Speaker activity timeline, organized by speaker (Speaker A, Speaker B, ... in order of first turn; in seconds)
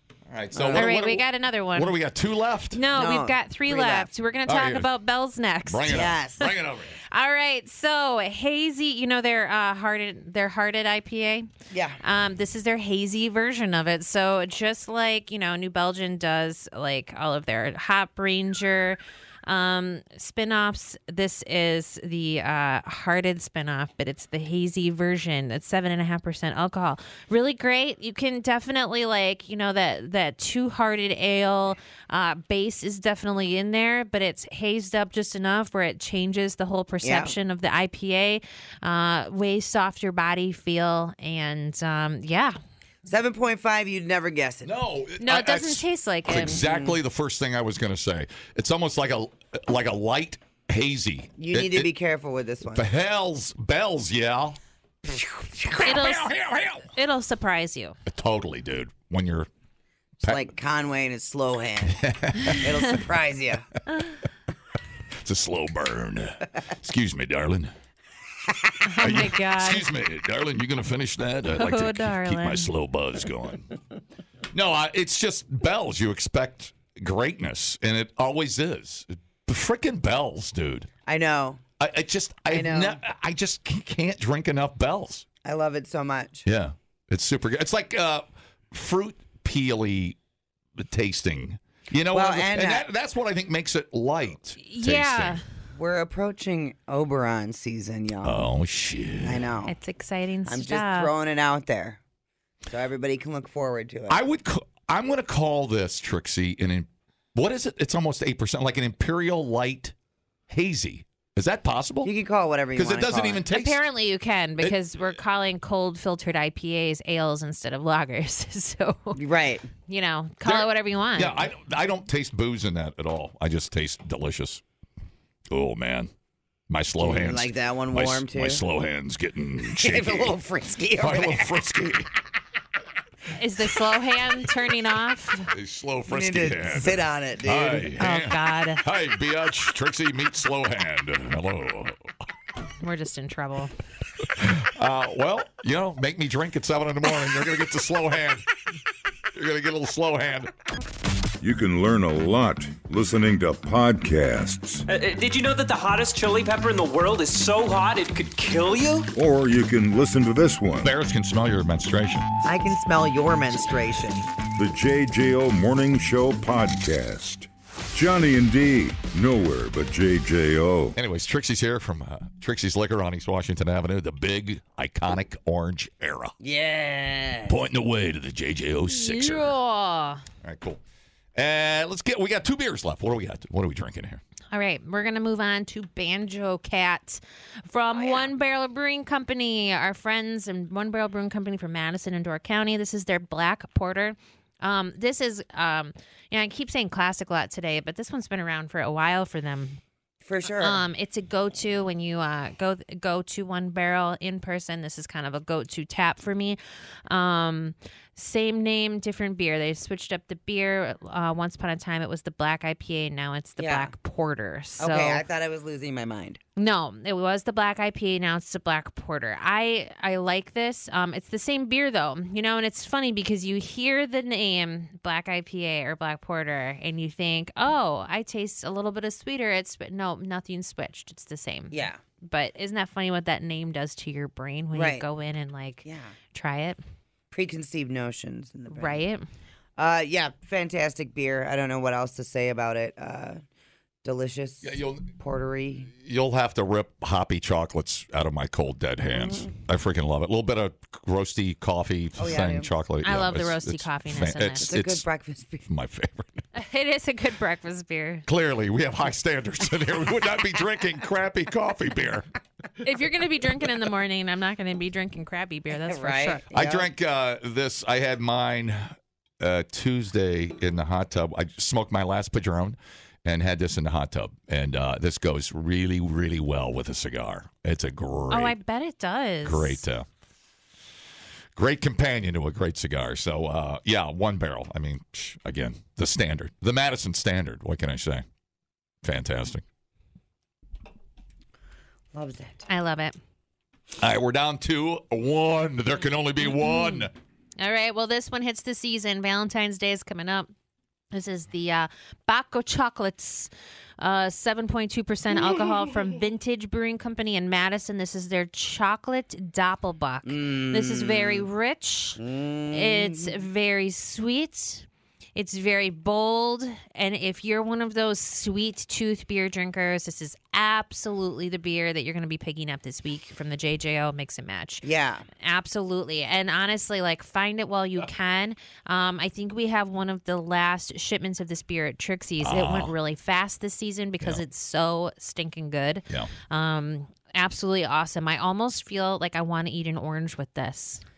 Speaker A: 0.3-2.8, 4.5-4.9, 5.7-7.0, 44.6-51.9, 52.7-54.6, 55.6-56.9, 58.1-59.5, 62.0-63.0, 65.2-67.7, 69.0-73.7, 74.5-80.9, 81.8-85.2, 86.4-90.2, 90.8-95.4, 98.2-99.5, 104.1-109.9, 110.5-112.1, 112.7-113.8, 120.4-124.6, 125.5-126.1, 126.7-130.3, 131.0-132.1, 135.5-142.0, 144.4-148.5, 149.3-150.5, 160.8-162.3, 170.9-176.3, 177.5-179.5, 180.4-180.8, 181.3-184.2, 244.6-245.1, 245.9-255.1, 255.7-256.4, 258.3-262.3, 266.5-278.5, 279.4-280.1, 281.6-288.2, 289.0-289.6, 294.0-297.1, 332.4-332.9
Speaker B: 0.5-0.9, 2.9-4.1, 5.9-6.5, 11.7-12.0, 37.0-37.3, 43.0-44.7, 46.4-47.0, 51.4-52.9, 60.2-63.7, 81.0-81.6, 82.5-83.0, 85.4-86.4, 92.1-92.8, 95.8-98.4, 99.2-99.7, 100.5-102.0, 102.7-104.2, 112.0-113.4, 119.2-119.7, 127.0-128.6, 129.7-131.5, 136.1-137.9, 162.4-164.3, 176.4-177.6, 200.2-200.8, 213.6-213.9, 214.8-216.4, 231.7-232.0, 234.7-235.0, 235.8-236.1, 237.3-239.0, 239.8-243.4, 244.0-245.9, 249.1-249.5, 252.2-252.7, 254.7-255.6, 265.8-266.9, 292.1-292.6, 310.2-311.5, 312.2-313.4, 324.8-325.2
Speaker C: 0.7-1.9, 2.7-6.1, 7.1-11.5, 12.0-42.6, 45.2-46.6, 55.8-56.3, 56.9-58.0, 68.8-69.8, 71.5-72.7, 94.6-95.4, 99.7-101.1, 113.5-119.2, 119.9-121.5, 133.3-135.5, 138.0-138.8, 142.8-143.7, 178.9-180.2, 184.5-199.8, 200.6-215.2, 216.6-236.8, 238.7-239.2, 253.0-254.7, 256.5-258.2, 262.8-266.4, 278.3-279.8, 292.7-293.2, 296.6-297.1, 297.6-300.5, 301.1-312.2, 312.7-324.8, 325.4-341.0
Speaker D: 151.4-154.8, 159.1-160.9, 164.6-170.9
Speaker E: 154.9-159.1